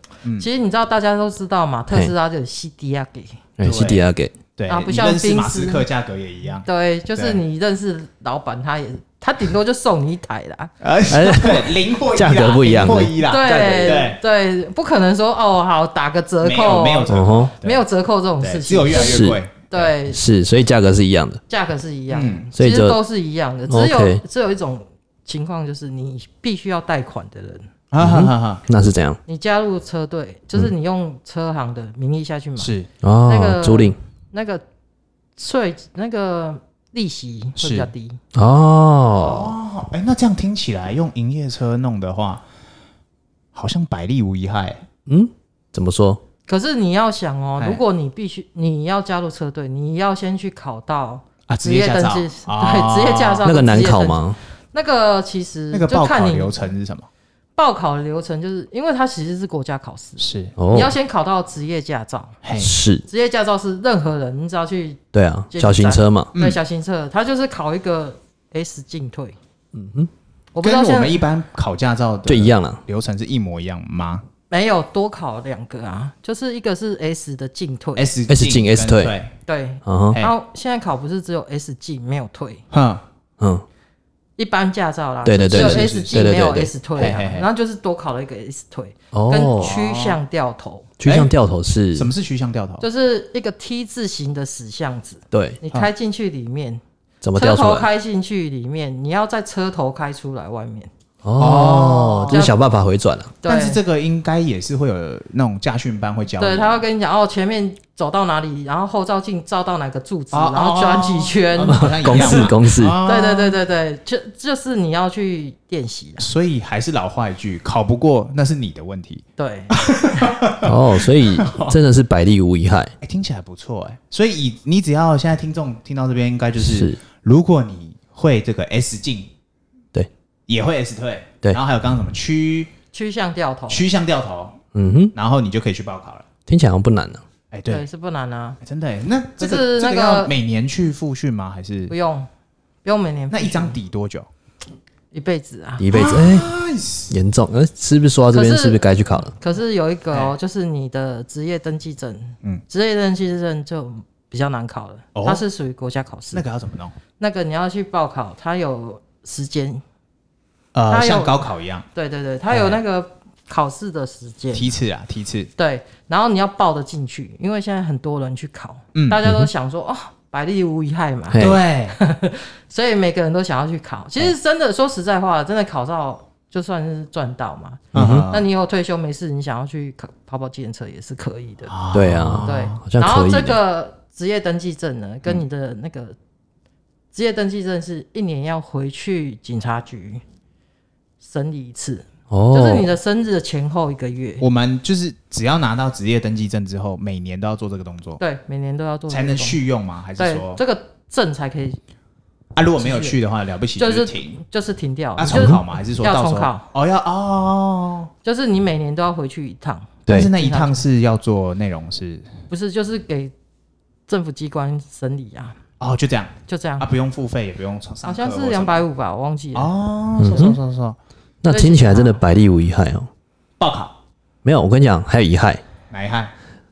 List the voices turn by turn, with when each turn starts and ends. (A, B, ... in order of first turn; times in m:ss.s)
0:00.4-0:03.4 A
0:03.6-0:04.3 B
0:03.6-0:04.1 C
0:04.6-0:07.4 C
0:04.7-0:05.9 A
0:06.6-0:10.7 A
0:10.8-0:14.2 C
0:11.1-0:13.2 B
0:13.2-0:20.2 A
0:16.4-0:17.8 C
0:17.1-0:17.5 B
0:18.4-0:19.9 C
0:18.9-0:19.4 B
0:20.1-0:21.4 B
0:21.5-0:27.6 A
0:22.1-0:22.5 C
0:22.6-0:23.0 B
0:23.7-0:24.2 B
0:27.9-0:28.6 C
0:28.0-0:29.2 B
0:29.3-0:32.7 A
0:32.6-0:32.9 C
0:33.0-0:34.0 B
0:33.3-0:34.6 A
0:35.4-0:38.2 A
0:37.6-0:37.9 C
0:38.4-0:39.6 B
0:39.2-0:42.4 C
0:43.5-0:44.8 C
0:45.1-0:46.2 B
0:46.5-0:56.6 A
0:51.5-0:53.4 C
0:53.4-0:54.4 B
0:55.7-0:57.1 C
0:57.6-1:02.4 A
1:00.2-1:00.5 C
1:00.6-1:00.9 B
1:02.4-1:02.7 C
1:02.6-1:03.0 B
1:03.1-1:05.0 A
1:05.1-1:06.3 B
1:05.5-1:09.4 A
1:06.3-1:06.6 C
1:09.7-1:10.1 B
1:10.5-1:11.2 A
1:10.6-1:14.2 C
1:12.3-1:12.8 B
1:14.5-1:18.1 A
1:18.0-1:19.3 C
1:18.3-1:19.2 B
1:19.5-1:22.6 A
1:19.9-1:20.2 B
1:22.7-1:23.0 C
1:24.4-1:30.9 A
1:25.2-1:26.7 B
1:25.5-1:26.3 C
1:27.0-1:27.5 C
1:29.1-1:29.7 B
1:29.6-1:30.2 C
1:31.0-1:32.1 B
1:31.0-1:31.3 C
1:32.0-1:32.9 C
1:32.8-1:36.8 A
1:35.3-1:35.6 B
1:37.2-1:37.9 B
1:37.4-1:40.9 A
1:41.2-1:43.3 B
1:41.4-1:42.5 C
1:42.3-1:42.6 A
1:43.4-1:43.8 A
1:43.4-1:46.8 C
1:46.4-1:52.5 A
1:50.3-1:53.6 C
1:51.6-1:53.0 B
1:53.0-1:56.3 A
1:56.2-2:01.8 C
1:59.4-2:00.4 A
2:00.6-2:02.9 B
2:03.0-2:09.3 C
2:06.6-2:07.0 B
2:10.5-2:12.7 C
2:12.9-2:13.8 A
2:13.7-2:14.6 C
2:14.7-2:15.1 B
2:15.1-2:16.3 C
2:16.5-2:17.2 B
2:17.5-2:17.8 C
2:17.7-2:18.6 A
2:18.6-2:21.9 C
2:19.4-2:20.3 A
2:21.9-2:22.3 A
2:22.8-2:23.8 A
2:23.3-2:24.3 C
2:25.1-2:25.9 A
2:25.8-2:26.5 B
2:25.9-2:27.1 C
2:27.1-2:29.3 B
2:28.3-2:36.4 A
2:35.2-2:35.4 C
2:36.3-2:37.0 C
2:37.2-2:39.8 A
2:40.7-2:41.9 C
2:40.9-2:44.7 A
2:42.5-2:42.8 C
2:44.5-2:45.5 C
2:45.6-3:01.7 A
2:48.9-2:49.2 C
2:49.2-2:49.5 B
2:51.3-2:51.6 B
2:51.4-2:52.0 C
2:57.9-2:58.3 B
2:57.9-2:58.5 C
3:01.7-3:02.8 C
3:01.9-3:03.6 B
3:02.4-3:06.2 A
3:07.1-3:10.2 A
3:11.2-3:14.5 A
3:12.3-3:12.9 B
3:14.4-3:18.2 C
3:18.2-3:19.6 A
3:19.1-3:20.6 C
3:20.2-3:21.8 A
3:22.6-3:24.4 C
3:22.8-3:23.2 A
3:23.8-3:26.7 A
3:25.2-3:28.1 C
3:25.3-3:25.6 B
3:28.2-3:30.8 A
3:30.1-3:32.3 C
3:32.5-3:33.3 A
3:34.1-3:35.6 A
3:35.8-3:38.8 C
3:36.5-3:36.9 A
3:38.0-3:39.7 A
3:39.5-3:41.0 C
3:40.2-3:40.6 B
3:41.4-3:43.1 B
3:41.5-3:42.2 A
3:43.6-3:44.0 C
3:44.4-3:45.6 B
3:45.9-3:46.3 C